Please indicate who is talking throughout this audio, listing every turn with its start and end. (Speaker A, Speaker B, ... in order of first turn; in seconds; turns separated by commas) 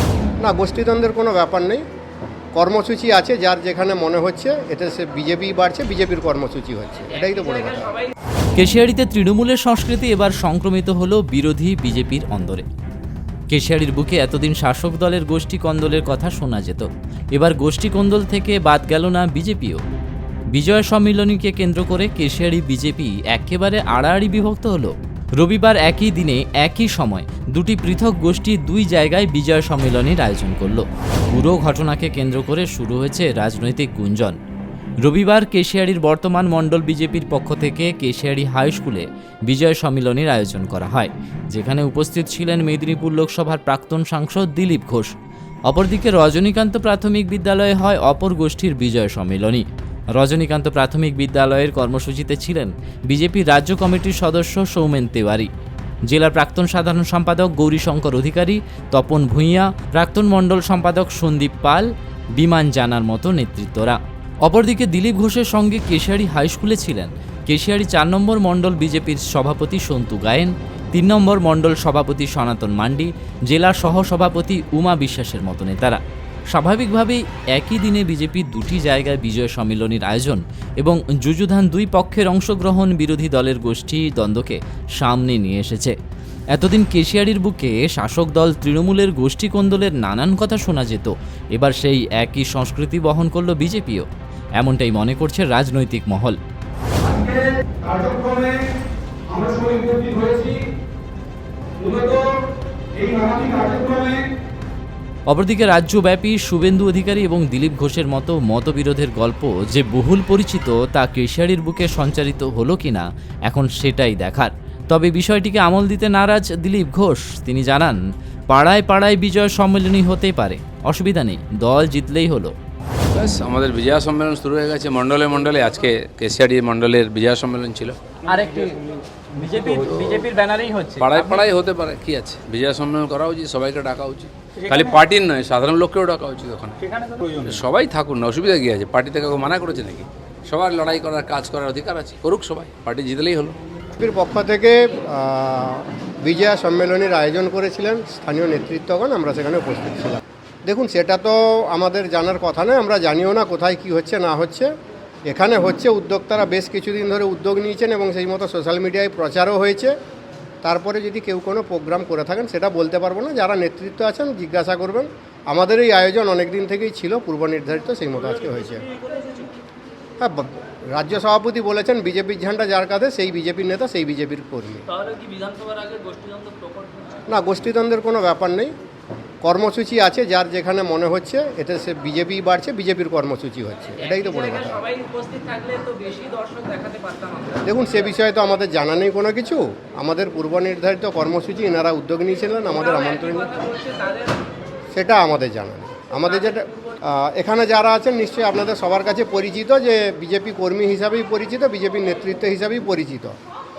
Speaker A: 0.4-1.8, Speaker A: 2.5-8.0, Speaker B: 8.6-12.6, Speaker B: 13.5-19.8, Speaker B: 20.5-34.4, Speaker B: 35.0-45.1, Speaker B: 45.7-49.6, Speaker B: 50.1-55.5, Speaker B: 56.1-76.0, Speaker B: 76.5-85.9, Speaker B: 86.5-94.0, Speaker B: 94.6-96.4, Speaker C: 97.8-98.5, Speaker C: 99.3-100.5, Speaker C: 101.8-102.2, Speaker C: 103.0-104.2, Speaker B: 105.3-122.5, Speaker D: 123.1-128.0, Speaker E: 128.3-128.8, Speaker E: 129.4-130.9, Speaker D: 129.7-130.3, Speaker D: 131.0-136.8, Speaker D: 137.4-143.6, Speaker A: 144.0-154.7, Speaker A: 155.3-159.9, Speaker A: 160.6-168.9, Speaker A: 170.2-174.8, Speaker A: 177.3-178.7, Speaker A: 179.4-184.9, Speaker A: 187.6-193.7, Speaker A: 194.9-203.3